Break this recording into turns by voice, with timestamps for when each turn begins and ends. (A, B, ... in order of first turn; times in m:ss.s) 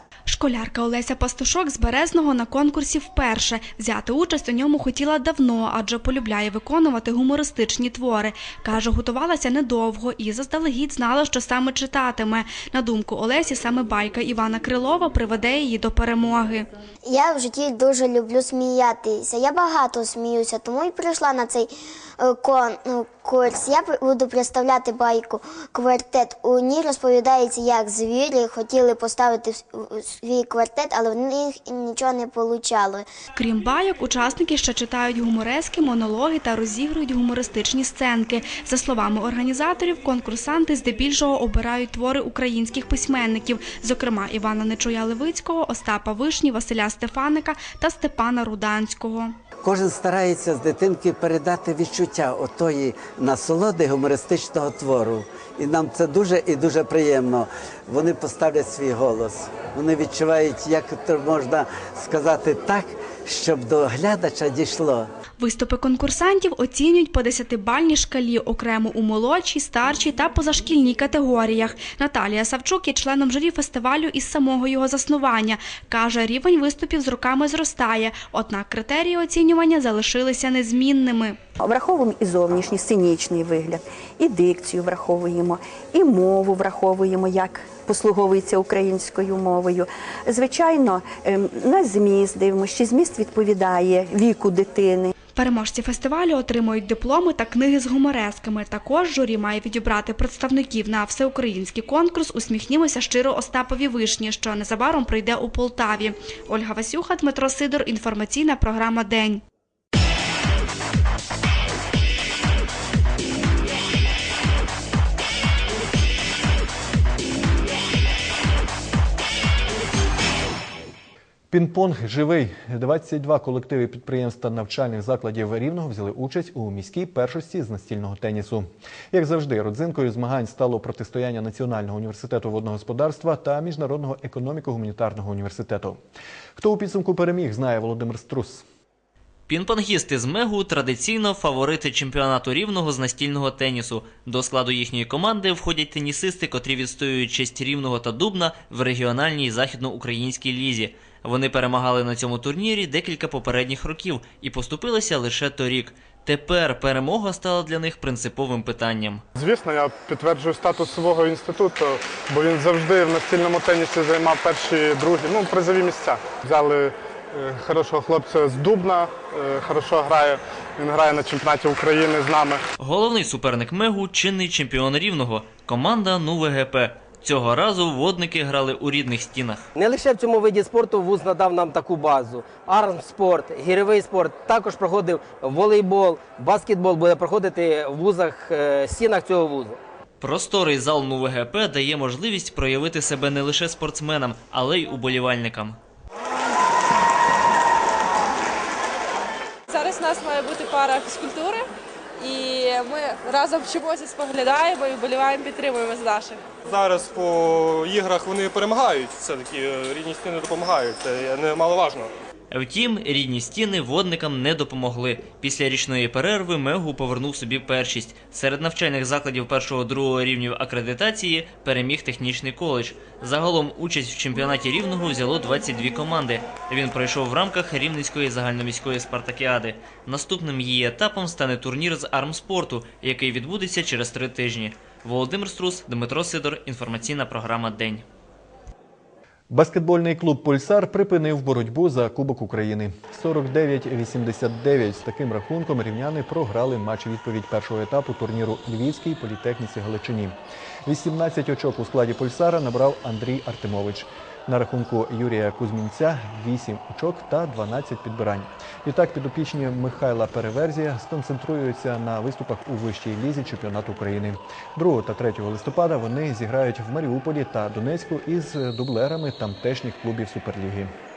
0:00.3-0:16.6 A
0:17.1-0:21.7 B
0:22.2-0:33.1 B
0:33.5-0:49.3 A
0:49.6-1:05.1 C
1:05.4-1:21.4 A
1:21.6-1:35.1 D
1:35.4-1:46.1 A
1:36.4-1:36.7 E
1:40.2-1:41.5 E
1:42.6-1:42.9 E
1:44.2-1:49.3 E
1:47.3-1:49.1 A
2:01.5-2:16.0 F
2:16.6-2:18.6 F
2:19.6-2:39.2 G
2:39.4-2:52.6 E
2:52.9-2:59.6 G
2:59.8-3:09.8 H
3:10.2-3:15.7 G
3:19.8-3:21.6 I
3:22.2-3:26.3 I
3:26.7-3:32.1 J
3:32.5-3:58.0 G
3:59.5-4:10.3 F
4:10.8-4:30.9 F